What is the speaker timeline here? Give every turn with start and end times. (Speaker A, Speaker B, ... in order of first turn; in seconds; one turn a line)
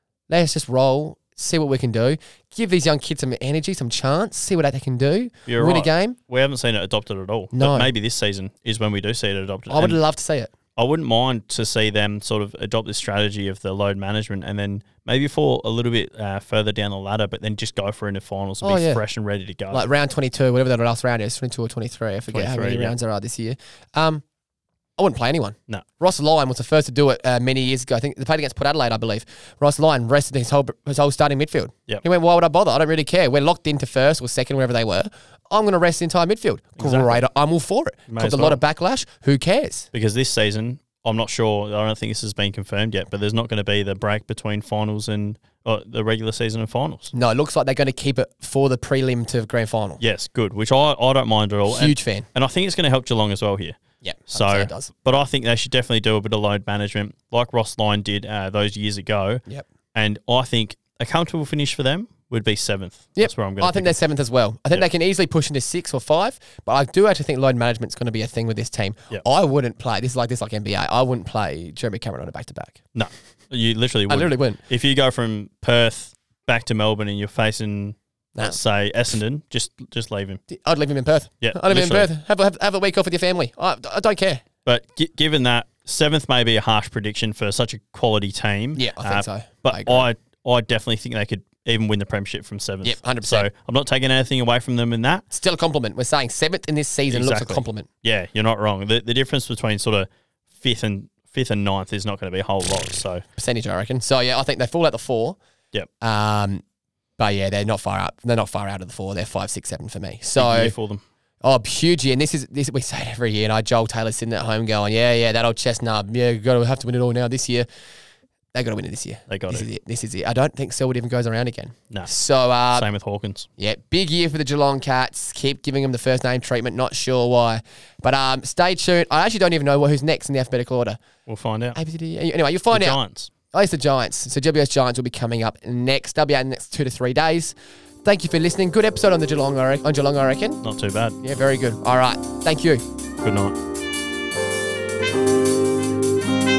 Speaker A: 0.3-6.2
Speaker B: 5.5-10.0
Speaker A: 7.5-7.9
Speaker A: 9.7-10.5
Speaker B: 10.8-19.9
Speaker A: 18.6-19.0
Speaker A: 19.7-24.2
Speaker B: 22.3-22.9
Speaker A: 25.0-39.9
Speaker B: 36.8-37.2
Speaker B: 38.1-38.6
Speaker B: 39.9-47.1
Speaker A: 47.1-50.0
Speaker B: 50.0-53.8
Speaker A: 51.7-52.3
Speaker A: 54.0-54.9
Speaker B: 54.3-64.0
Speaker A: 63.2-72.8
Speaker B: 72.9-80.4
Speaker A: 74.1-74.6
Speaker A: 80.5-84.4
Speaker B: 81.4-82.1
Speaker B: 84.7-95.2
Speaker A: 88.8-90.1
Speaker A: 92.8-93.5
Speaker A: 95.3-97.9
Speaker B: 97.1-103.2
Speaker A: 103.4-105.4
Speaker A: 106.0-106.6
Speaker A: 107.2-110.7
Speaker B: 110.4-111.0
Speaker A: 111.4-117.7
Speaker A: 118.5-122.9
Speaker B: 119.3-119.7
Speaker B: 122.8-123.5
Speaker A: 123.6-131.0
Speaker B: 131.3-131.8
Speaker A: 131.8-133.0
Speaker B: 132.7-133.3
Speaker A: 133.5-140.6
Speaker B: 140.6-141.2
Speaker A: 141.2-142.8
Speaker B: 143.2-143.6